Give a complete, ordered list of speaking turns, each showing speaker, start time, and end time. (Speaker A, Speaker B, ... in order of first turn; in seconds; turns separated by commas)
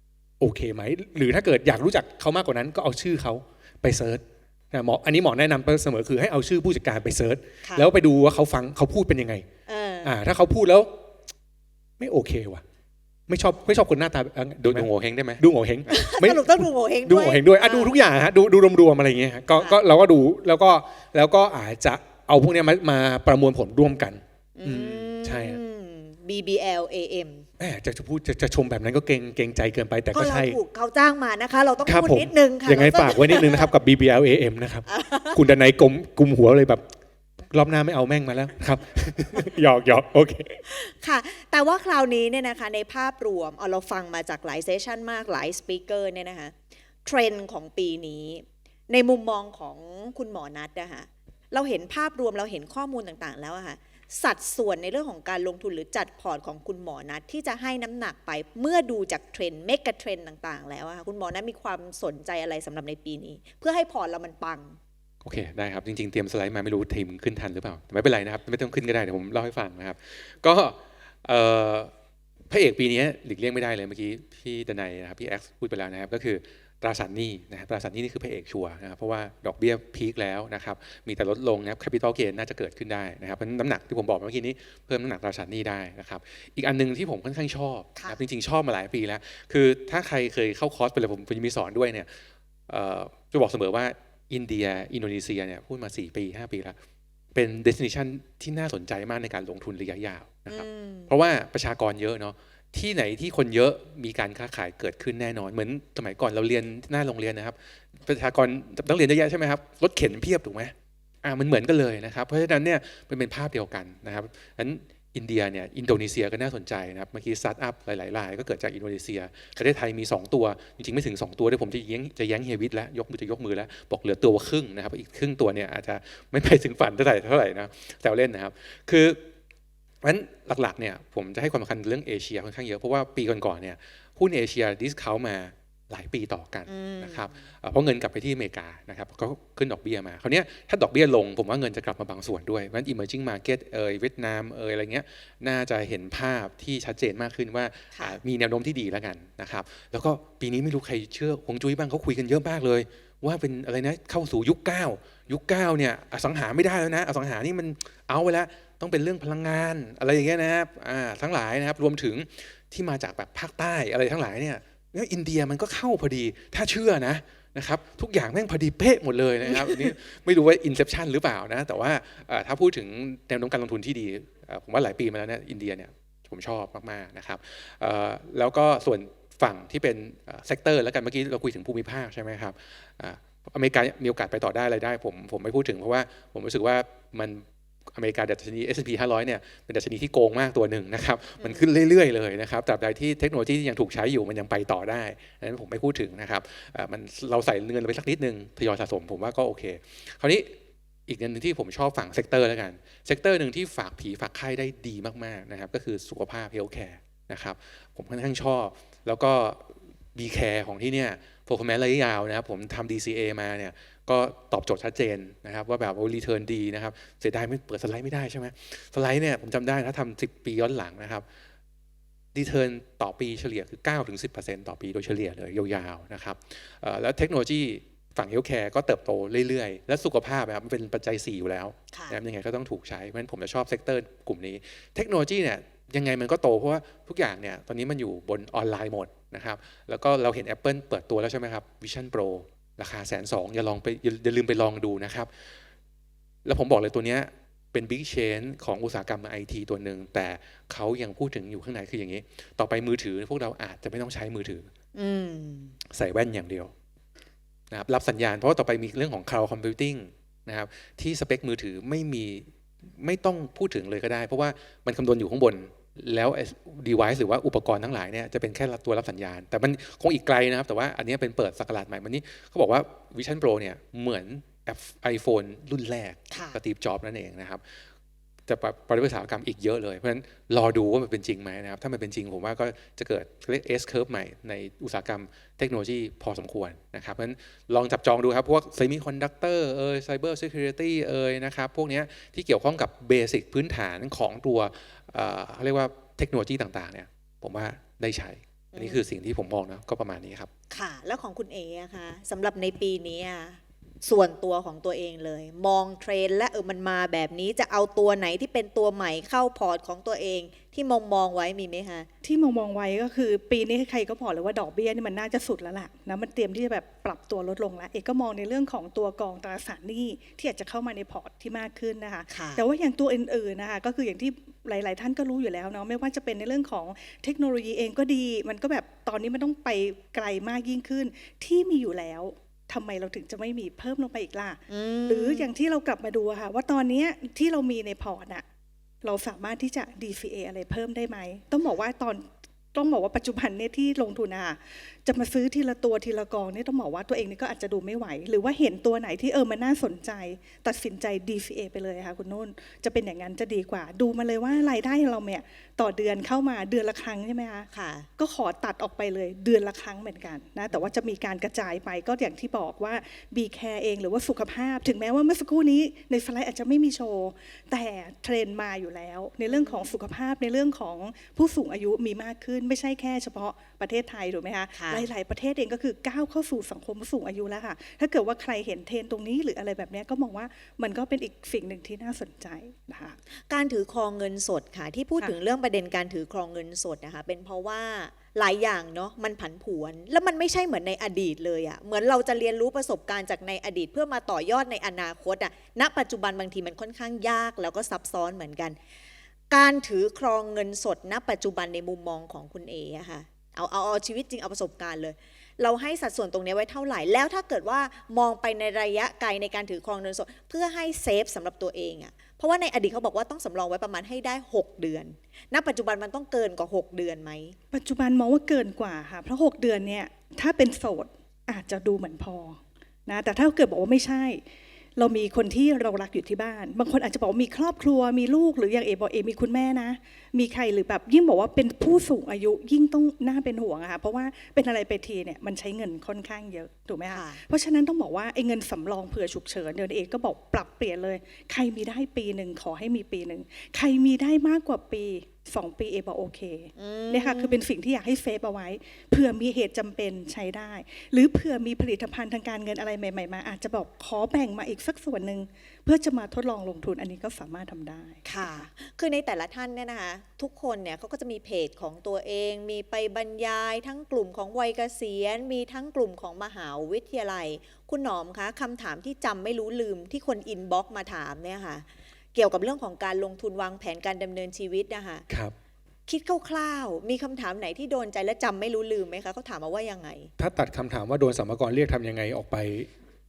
Speaker A: 0.4-9.4, Speaker B: 7.6-7.9, Speaker B: 9.7-10.1, Speaker A: 10.0-10.9, Speaker A: 12.0-12.6, Speaker A: 13.3-14.9, Speaker C: 14.6-15.4, Speaker A: 15.4-25.6, Speaker B: 15.9-17.9, Speaker B: 19.5-19.8, Speaker B: 24.6-27.5, Speaker A: 27.6-30.6, Speaker B: 30.1-33.7, Speaker A: 31.8-36.8, Speaker B: 34.9-35.4, Speaker A: 37.5-40.6, Speaker B: 40.7-64.8, Speaker C: 65.2-71.9, Speaker C: 72.5-92.1, Speaker C: 92.7-96.8, Speaker C: 97.3-129.2, Speaker B: 100.5-101.1, Speaker C: 130.0-200.5, Speaker B: 136.7-137.3, Speaker B: 147.9-148.2, Speaker B: 169.4-169.9, Speaker B: 191.4-191.6, Speaker C: 201.1-221.2, Speaker C: 222.3-245.3, Speaker B: 231.9-232.2, Speaker C: 246.4-254.7, Speaker B: 254.9-255.7, Speaker C: 255.9-256.7, Speaker C: 257.7-262.4, Speaker C: 263.0-277.8, Speaker B: 276.3-276.6, Speaker C: 278.5-300.5, Speaker B: 298.7-299.0, Speaker B: 300.7-312.1, Speaker D: 312.2-338.4, Speaker B: 322.3-322.6, Speaker B: 334.7-335.5, Speaker D: 339.0-383.2, Speaker B: 357.7-358.1, Speaker B: 369.5-369.9, Speaker B: 374.7-375.1, Speaker B: 383.5-398.8, Speaker B: 399.5-417.6, Speaker D: 417.7-424.4, Speaker D: 425.0-458.7, Speaker B: 437.1-437.4, Speaker B: 446.8-447.6, Speaker B: 458.2-475.2, Speaker A: 475.3-475.5, Speaker B: 476.1-480.3, Speaker A: 480.4-482.9